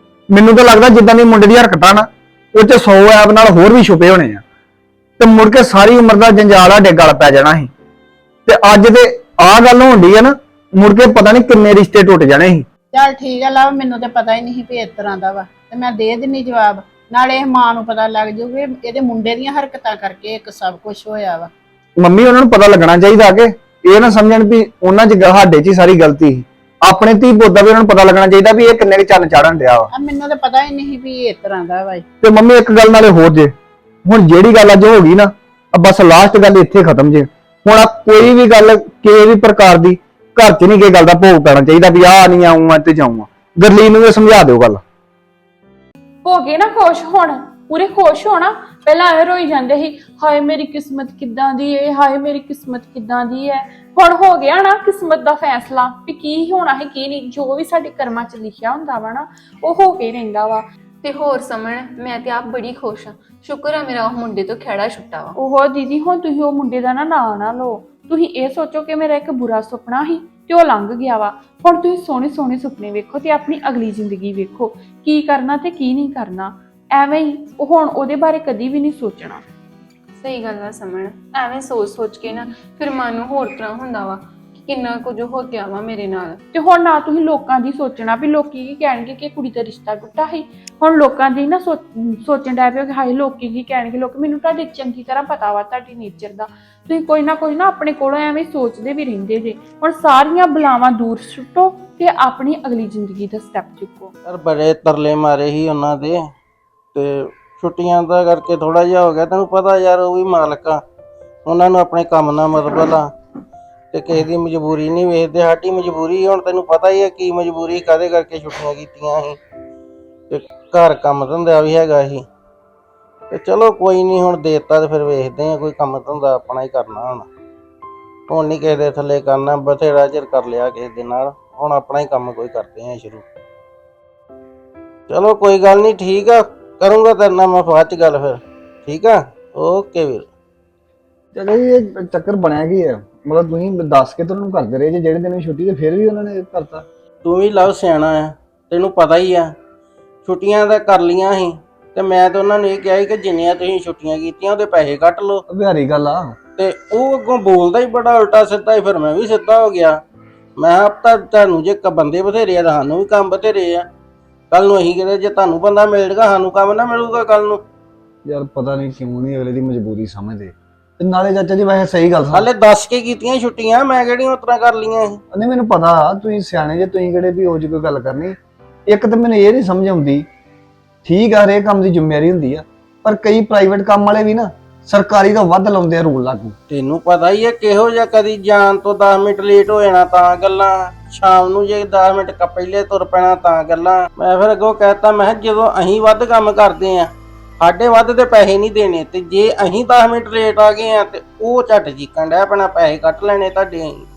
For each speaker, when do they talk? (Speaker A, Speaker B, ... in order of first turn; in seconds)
Speaker A: 0.3-4.4, 5.2-7.7, 8.5-12.7, 22.0-29.9, 32.2-33.5, 34.0-44.8, 141.3-146.8, 155.5-156.4, 168.3-172.5, 175.3-178.4, 178.9-180.3, 181.1-186.6
Speaker B: 12.9-21.5, 29.9-32.0
Speaker C: 46.2-60.6, 65.4-79.4, 86.5-104.1
Speaker D: 61.0-65.4, 80.2-86.4
Speaker E: 104.3-106.2, 107.0-110.8, 111.5-113.1, 113.9-119.4, 120.3-122.2, 123.3-127.3, 128.3-133.2, 135.1-140.3, 147.2-149.5, 150.2-155.4, 156.6-160.0, 160.6-163.9, 164.5-167.6, 172.3-175.2, 186.7-197.1, 197.6-204.1